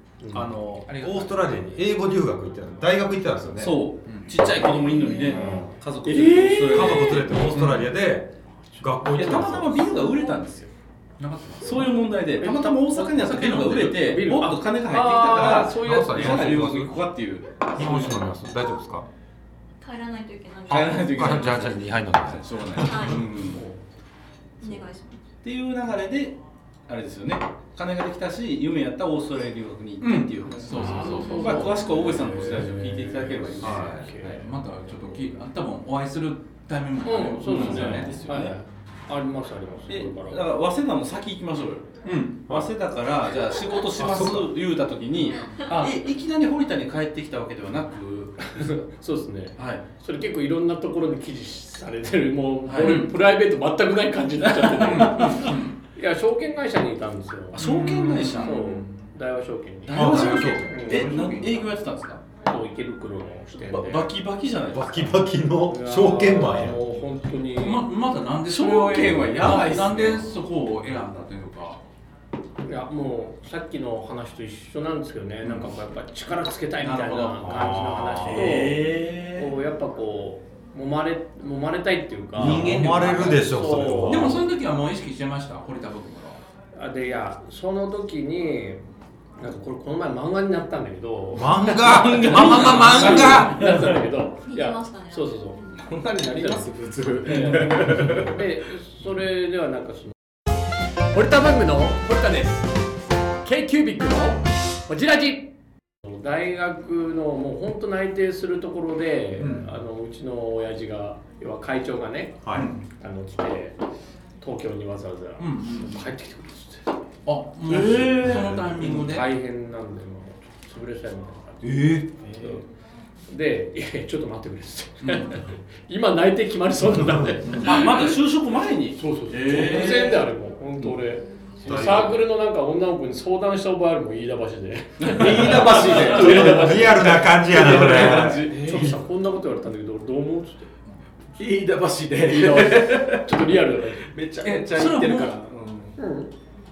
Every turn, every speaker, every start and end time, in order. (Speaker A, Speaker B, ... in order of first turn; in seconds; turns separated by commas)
Speaker A: 0.2-0.5, Speaker B: 0.3-3.8, Speaker C: 0.9-1.6, Speaker D: 3.6-7.3, Speaker C: 4.0-4.4, Speaker B: 5.2-5.7, Speaker A: 6.0-7.2, Speaker B: 6.7-9.9, Speaker C: 7.5-7.9, Speaker D: 9.1-10.7, Speaker C: 11.2-11.9, Speaker D: 11.6-18.4, Speaker A: 12.4-16.7, Speaker B: 15.4-17.0, Speaker B: 17.8-19.0, Speaker E: 19.8-21.7, Speaker D: 20.7-23.6, Speaker B: 21.2-22.4, Speaker C: 21.6-22.4, Speaker E: 22.8-23.3, Speaker E: 24.6-25.2, Speaker D: 25.4-34.4, Speaker C: 30.0-31.6, Speaker A: 30.7-34.5, Speaker E: 31.1-31.8, Speaker B: 33.6-34.0, Speaker C: 33.6-38.2, Speaker A: 37.0-40.4, Speaker D: 37.4-38.5, Speaker D: 39.9-48.6, Speaker C: 42.0-42.4, Speaker B: 44.0-44.5, Speaker E: 45.3-45.6, Speaker A: 48.5-57.7, Speaker D: 49.6-49.8, Speaker D: 52.7-53.0, Speaker C: 52.8-53.1, Speaker D: 54.6-55.4, Speaker C: 54.8-55.8, Speaker D: 57.5-59.1, Speaker C: 57.6-58.5, Speaker A: 58.3-61.1, Speaker D: 59.9-62.2, Speaker B: 59.9-61.1, Speaker C: 60.1-61.7, Speaker A: 62.4-64.1, Speaker D: 63.6-65.1, Speaker B: 64.7-66.8, Speaker A: 65.7-67.8, Speaker C: 67.6-71.8, Speaker D: 68.5-70.3, Speaker A: 72.7-84.4, Speaker C: 76.8-77.5, Speaker B: 77.4-78.7, Speaker D: 78.3-79.5, Speaker B: 82.3-84.5, Speaker C: 82.3-86.4, Speaker A: 86.7-88.8, Speaker A: 89.4-95.6, Speaker B: 91.3-93.9, Speaker D: 92.1-93.6, Speaker E: 94.4-95.8, Speaker F: 95.8-98.4, Speaker A: 96.3-96.6, Speaker A: 97.3-100.1, Speaker A: 101.1-102.7, Speaker A: 103.4-105.5, Speaker A: 106.0-112.5, Speaker C: 109.4-109.7, Speaker B: 112.4-112.7, Speaker C: 112.5-112.8, Speaker A: 113.0-113.8, Speaker A: 114.4-117.0, Speaker C: 115.4-116.0, Speaker C: 117.2-119.3, Speaker D: 117.7-118.8, Speaker A: 118.2-122.6, Speaker C: 121.6-122.1, Speaker F: 122.2-122.6, Speaker A: 123.3-128.1, Speaker C: 125.0-125.3, Speaker B: 127.0-127.4, Speaker D: 127.6-130.2, Speaker A: 129.0-140.7, Speaker B: 131.6-132.1, Speaker D: 131.7-132.0, Speaker F: 135.1-138.9, Speaker B: 135.5-139.0, Speaker F: 141.4-146.0, Speaker A: 142.2-144.0, Speaker C: 144.4-145.4, Speaker A: 146.0-146.3